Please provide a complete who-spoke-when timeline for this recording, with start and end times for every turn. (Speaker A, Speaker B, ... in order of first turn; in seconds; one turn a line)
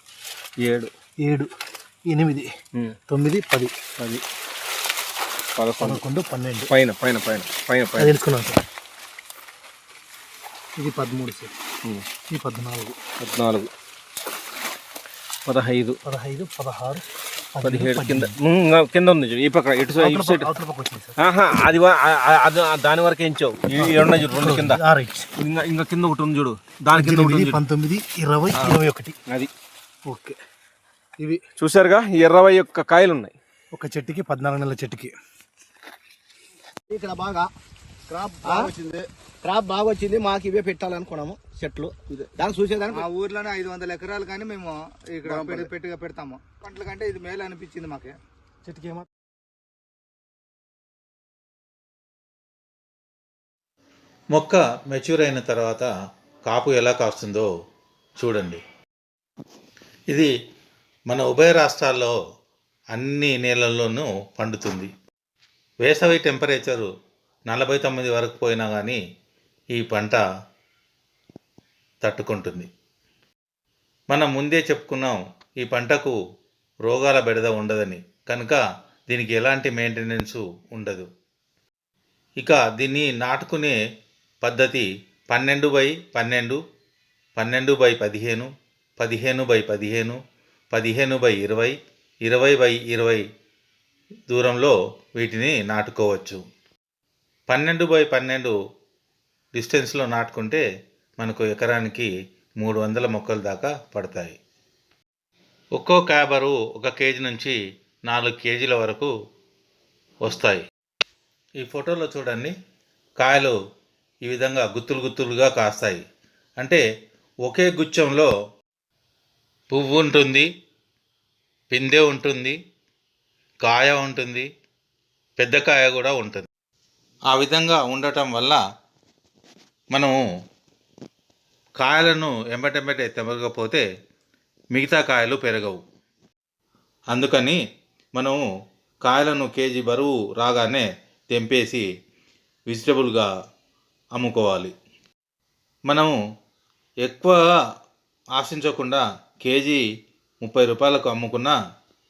Speaker A: 0.6-0.9
Speaker B: 2.1-2.5
Speaker B: 3.1-3.7
Speaker A: 4.0-4.2
Speaker A: 5.5-6.0
Speaker B: 5.8-6.6
Speaker A: 6.7-8.2
Speaker B: 8.0-8.6
Speaker B: 10.8-11.5
Speaker B: 12.3-12.9
Speaker A: 13.2-13.7
Speaker A: 15.5-16.0
Speaker B: 16.1-17.0
Speaker B: 17.6-18.3
Speaker A: 17.6-20.5
Speaker B: 20.1-21.1
Speaker A: 21.2-24.8
Speaker B: 23.9-25.3
Speaker A: 25.4-27.6
Speaker B: 26.9-29.1
Speaker A: 28.5-29.5
Speaker B: 30.1-30.4
Speaker A: 31.6-33.3
Speaker B: 33.8-35.1
Speaker C: 36.9-37.5
Speaker D: 38.1-39.0
Speaker C: 38.4-38.7
Speaker C: 39.4-43.0
Speaker D: 42.8-48.1
Speaker E: 54.3-55.9
Speaker E: 56.5-57.5
Speaker E: 58.2-58.6
Speaker E: 61.1-62.1
Speaker E: 62.9-64.9
Speaker E: 65.8-66.9
Speaker E: 67.5-69.0
Speaker E: 69.8-70.2
Speaker E: 72.0-72.7
Speaker E: 74.1-76.2
Speaker E: 76.8-81.1
Speaker E: 82.4-83.8
Speaker E: 84.4-86.6
Speaker E: 87.4-90.2
Speaker E: 90.7-91.7
Speaker E: 92.2-93.2
Speaker E: 94.3-96.4
Speaker E: 97.5-98.5
Speaker E: 99.5-100.6
Speaker E: 101.2-102.1
Speaker E: 102.6-104.4
Speaker E: 105.8-107.6
Speaker E: 108.1-109.1
Speaker E: 110.2-110.6
Speaker E: 111.6-112.5
Speaker E: 113.2-113.5
Speaker E: 114.2-116.0
Speaker E: 117.5-118.3
Speaker E: 119.7-120.5
Speaker E: 121.7-122.6
Speaker E: 123.7-124.5
Speaker E: 125.4-126.5
Speaker E: 127.3-128.6
Speaker E: 129.9-130.2
Speaker E: 131.8-133.8
Speaker E: 134.7-135.8
Speaker E: 137.1-137.6
Speaker E: 138.2-138.4
Speaker E: 139.0-141.8
Speaker E: 142.7-143.3
Speaker E: 144.2-144.7
Speaker E: 145.9-146.2
Speaker E: 147.1-147.4
Speaker E: 148.4-149.8
Speaker E: 150.4-151.5